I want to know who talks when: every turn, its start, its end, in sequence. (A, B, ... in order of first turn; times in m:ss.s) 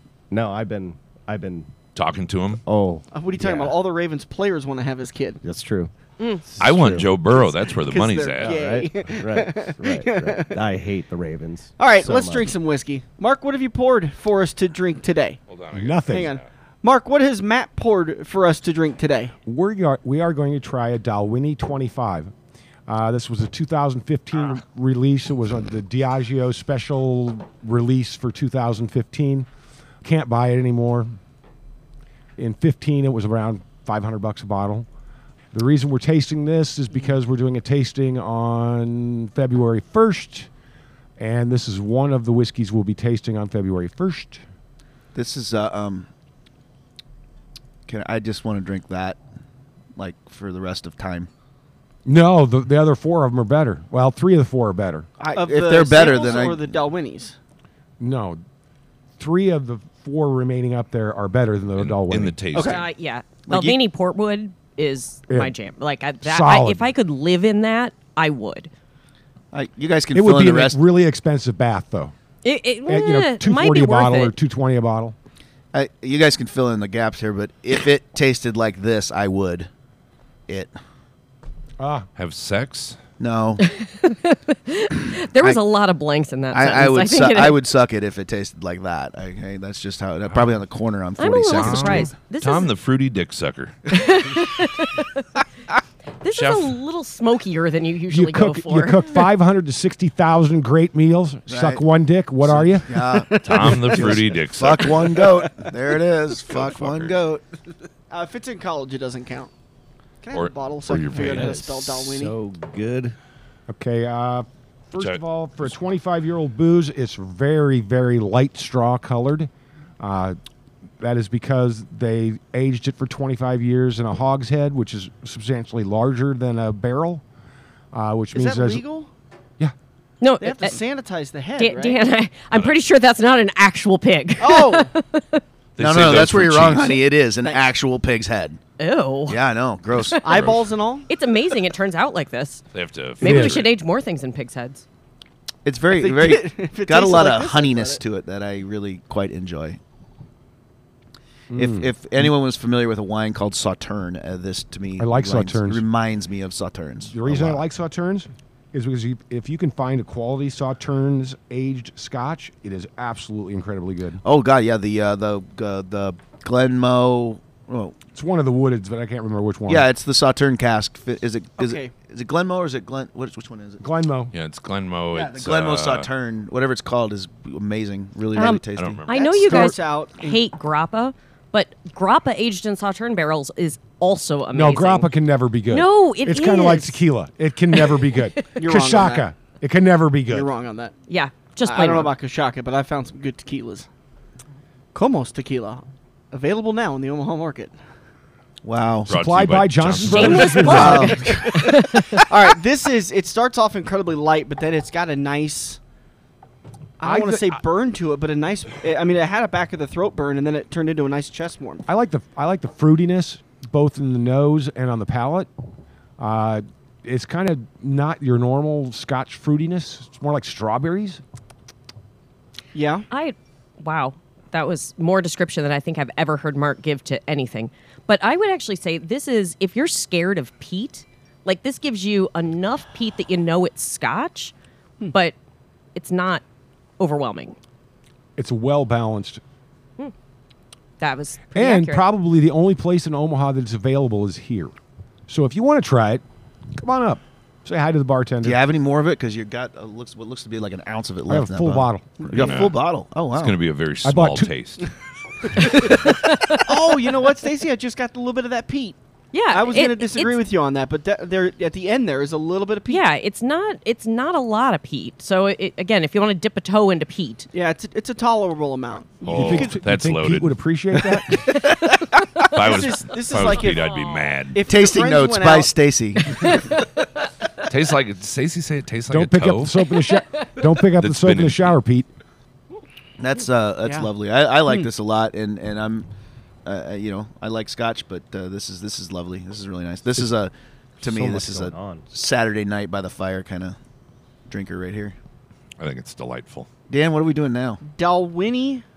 0:00.3-0:01.7 A
0:02.0-0:02.6 B
0:02.6-0:03.8 A
0:03.1-0:05.4 C
0:05.4-0:05.9 A
0:06.4-0:07.2 A
0:06.6-0:08.6 B
0:07.5-0:10.6 C
0:08.4-0:12.5 A
0:11.8-0:15.4 C
0:15.5-0:16.4 B
0:15.7-0:16.3 D
0:16.1-0:19.3 C
0:19.5-0:22.3 D
0:22.9-0:29.5 D
0:30.0-0:31.2 D
0:32.4-0:34.9 D
0:35.5-0:40.5 D
0:41.2-0:44.4 D
0:45.2-0:46.1 E
0:47.9-0:49.2 E
0:50.0-0:51.3 E
0:52.0-0:55.1 D
0:55.2-0:56.7 E
0:55.3-0:57.4 C
0:58.0-0:58.4 D
0:59.2-1:02.4 D
1:01.8-1:02.9 B
1:02.6-1:02.8 E
1:02.6-1:08.7 F
1:03.5-1:03.8 E
1:05.3-1:05.5 D
1:06.2-1:06.9 D
1:09.5-1:10.8 E
1:10.1-1:12.1 D
1:12.4-1:14.3 F
1:12.9-1:15.2 D
1:15.7-1:19.7 E
1:21.8-1:22.1 D
1:22.2-1:23.0 B
1:23.2-1:23.6 E
1:23.6-1:27.6 F
1:26.5-1:32.1 E
1:31.2-1:32.7 F
1:31.5-1:34.0 B
1:33.9-1:35.3 F
1:36.2-1:39.0 F
1:36.3-1:36.8 B
1:38.1-1:43.2 D
1:41.5-1:41.8 E
1:42.4-1:47.4 E
1:43.3-1:44.2 C
1:43.4-1:45.1 B
1:45.1-1:45.7 C
1:46.5-1:47.2 B
1:48.1-1:49.5 C
1:50.2-1:52.4 C
1:50.3-1:51.7 B
1:51.2-1:53.2 A
1:53.7-2:00.4 D
1:55.0-1:55.7 B
2:01.0-2:07.2 D
2:07.9-2:08.8 D
2:08.3-2:09.1 C
2:10.2-2:10.8 F
2:10.4-2:12.0 C
2:11.6-2:15.4 F
2:14.4-2:14.9 C
2:15.8-2:17.0 B
2:15.8-2:18.6 E
2:18.8-2:20.4 F
2:19.3-2:20.5 E
2:20.2-2:21.1 C
2:20.3-2:20.6 B
2:21.1-2:22.6 F
2:22.7-2:23.7 B
2:23.2-2:24.8 F
2:23.2-2:23.7 D
2:25.6-2:29.8 E
2:25.9-2:28.0 C
2:31.5-2:32.3 D
2:31.6-2:37.6 E
2:35.0-2:35.8 D
2:37.1-2:44.2 D
2:44.2-2:48.0 E
2:48.1-2:49.9 D
2:49.7-2:53.8 E
2:51.6-2:51.9 C
2:53.8-2:54.3 D
2:54.3-2:56.1 B
2:55.1-2:59.0 E
2:58.4-3:05.1 F
2:58.7-2:59.7 B
2:59.1-3:00.4 C
3:04.5-3:10.5 D
3:05.7-3:07.0 F
3:07.9-3:08.6 F
3:08.6-3:09.3 C
3:10.3-3:10.9 C
3:11.1-3:12.1 F
3:11.6-3:13.9 C
3:14.9-3:17.7 C
3:18.6-3:19.1 E
3:19.1-3:20.9 B
3:19.1-3:21.3 D
3:20.0-3:22.2 F
3:20.6-3:21.7 E
3:21.2-3:25.8 C
3:27.0-3:31.8 C
3:27.0-3:27.6 D
3:31.9-3:35.5 D
3:36.2-3:41.2 D
3:42.8-3:43.1 C
3:43.1-3:54.5 F
3:55.1-3:55.4 F
3:56.0-3:56.4 F
3:57.0-3:57.6 F
3:58.4-3:59.4 D
4:01.0-4:02.0 F
4:01.6-4:04.7 D
4:05.3-4:06.2 D
4:06.8-4:08.6 D
4:08.4-4:13.6 E
4:11.3-4:12.2 D
4:12.2-4:12.8 B
4:13.3-4:14.9 B
4:14.0-4:14.5 D
4:16.3-4:16.6 F
4:16.5-4:19.0 C
4:19.3-4:20.4 F
4:19.5-4:23.0 C
4:22.9-4:27.5 F
4:27.5-4:29.8 C
4:29.2-4:30.6 B
4:29.2-4:31.5 D
4:31.7-4:33.9 C
4:32.4-4:34.6 B
4:33.6-4:34.4 F
4:34.5-4:35.7 C
4:34.6-4:36.7 E
4:37.7-4:39.9 B
4:39.1-4:42.1 D
4:41.0-4:41.7 B
4:43.2-4:46.1 E
4:46.6-4:53.8 E
4:51.0-4:52.1 A
4:54.5-4:55.2 E
4:55.8-4:56.7 B
4:56.9-4:57.8 E
4:57.9-4:58.8 C